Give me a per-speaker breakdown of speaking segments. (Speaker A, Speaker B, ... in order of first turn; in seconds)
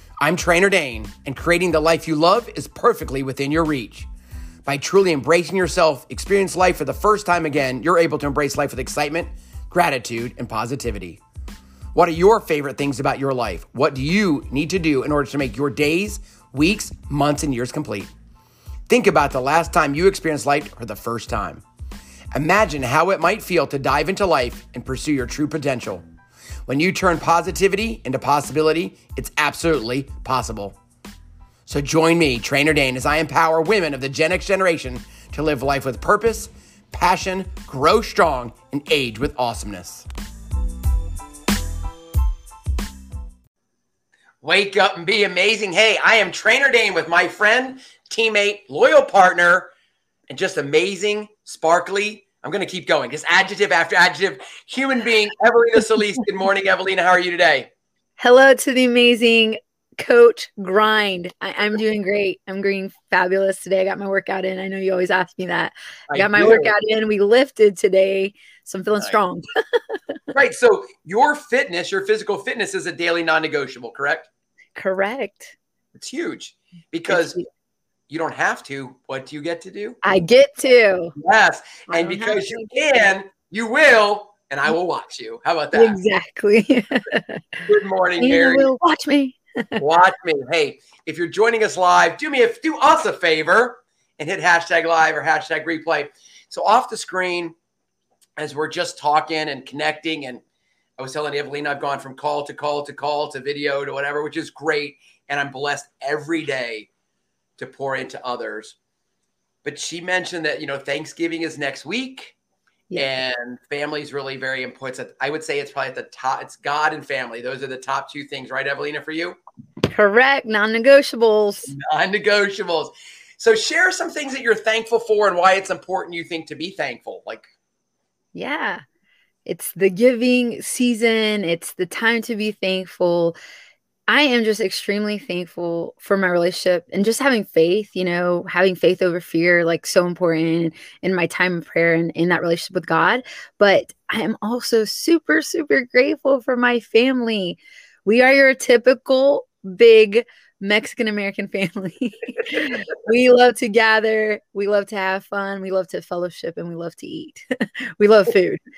Speaker A: 0.2-4.1, 4.7-11.2, 11.9-18.1, 18.9-21.6, 22.3-26.0, 26.7-30.8, 31.6-40.1, 44.4-49.7, 50.3-57.7, 66.1-66.7, 70.3-74.3, 76.0-77.4, 78.1-80.0, 81.2-86.0, 87.7-88.7, 89.8-97.5, 98.4-100.4, 101.0-106.9, 107.6-108.8, 109.6-112.3, 113.0-119.4, 121.7-127.5
Speaker B: 58.2-69.4, 74.8-75.5, 77.1-77.5, 80.0-81.1, 81.9-82.7, 85.7-87.6, 88.2-89.8, 119.9-121.7, 128.3-128.8, 129.4-133.4, 134.1-158.6